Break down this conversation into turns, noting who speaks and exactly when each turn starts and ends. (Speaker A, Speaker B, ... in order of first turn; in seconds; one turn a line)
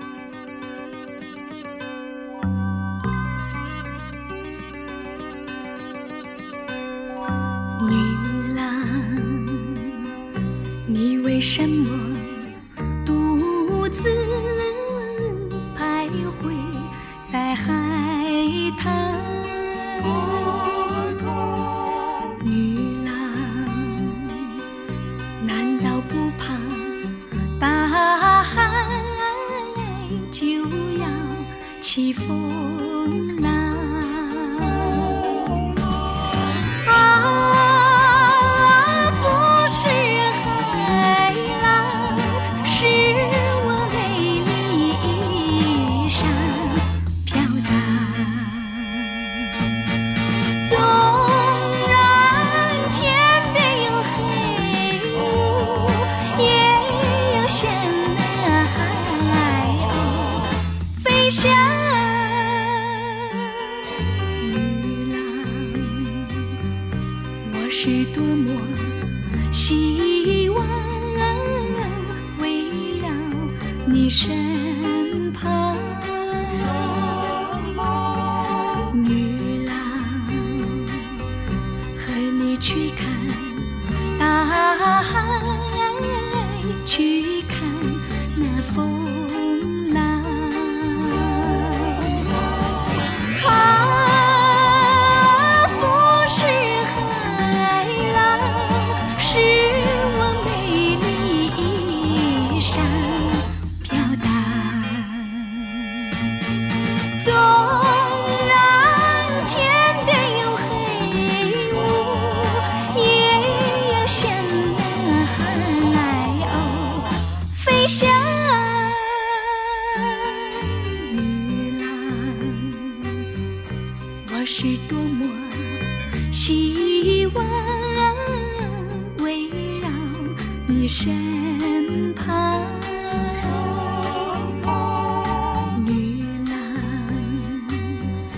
Speaker A: 7.8-9.9
Speaker A: 10.9-12.5
Speaker A: 13.0-21.1
Speaker A: 22.4-24.5
Speaker A: 25.4-27.0
Speaker A: 27.6-35.5
Speaker A: 36.8-49.3
Speaker A: 50.6-63.1
Speaker A: 64.4-66.5
Speaker A: 67.4-77.4
Speaker A: 78.9-81.1
Speaker A: 82.0-92.1
Speaker A: 93.3-106.1
Speaker A: 107.2-120.2
Speaker A: 120.8-123.2
Speaker A: 124.2-133.6
Speaker A: 135.7-138.0